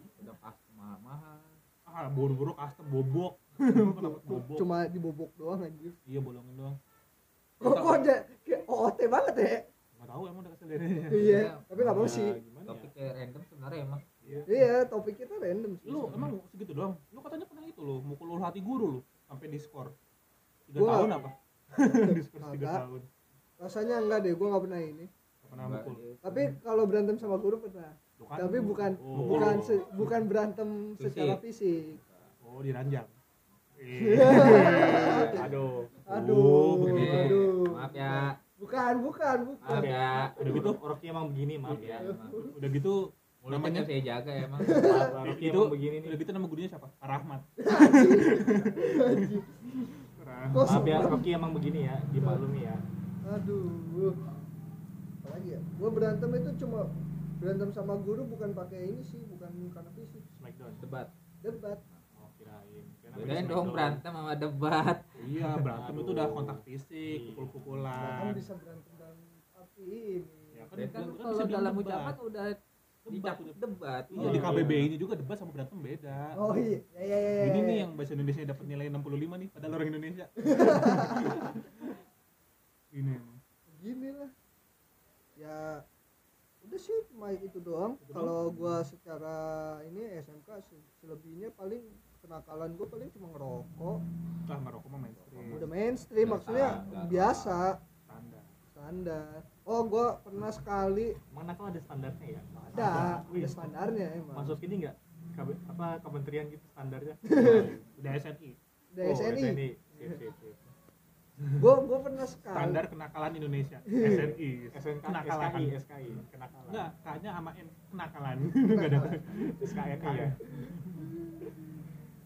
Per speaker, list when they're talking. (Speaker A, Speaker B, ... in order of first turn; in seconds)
Speaker A: 0.1-1.6, 7.6-8.0, 11.1-11.7, 12.7-14.1, 25.5-26.5, 31.0-31.4, 32.0-32.3, 34.6-35.2, 36.9-38.4, 39.6-40.6, 41.7-42.5, 43.5-45.0, 60.8-61.1, 63.1-65.0, 70.8-74.7, 96.2-97.6
Speaker B: 1.9-4.7, 6.1-6.8, 10.0-11.5, 14.2-14.5, 15.8-19.9, 20.7-23.1, 25.4-26.0, 28.2-30.1, 32.4-33.1, 33.8-35.4, 36.1-37.5, 40.4-40.8, 41.7-42.0, 42.5-43.9, 45.2-49.4, 50.2-51.0, 65.2-68.4, 70.5-72.2, 73.1-73.6, 74.1-76.4, 77.4-81.9, 82.9-83.4, 88.0-88.8, 94.5-95.7, 98.1-98.5, 108.0-108.6, 111.4-111.7, 112.5-121.2
Speaker C: 3.7-6.0, 7.6-9.7, 11.1-12.4, 14.5-16.3, 20.8-21.2, 21.8-22.8, 23.6-25.1, 26.2-32.0, 34.0-35.5, 36.0-40.0, 42.0-42.6, 44.6-45.2, 47.6-50.0, 50.5-51.3, 52.2-52.4, 53.2-54.2, 55.2-60.2, 61.4-61.8, 67.9-70.7, 76.3-77.9, 80.4-81.5, 83.7-84.3, 85.4-85.8, 86.6-94.0, 95.5-97.8, 98.7-101.2, 102.7-104.6, 107.3-107.7, 108.9-110.2, 111.6-112.8, 113.9-114.4, 118.6-119.2, 120.5-121.6
Speaker D: 11.7-12.9, 29.0-29.6, 34.9-35.9, 39.7-42.1, 44.7-46.2, 50.6-52.8, 60.4-60.8, 62.2-64.0, 65.4-68.2, 74.2-74.9, 101.3-103.7, 104.3-108.0, 109.0-110.7, 114.7-116.9, 119.2-120.4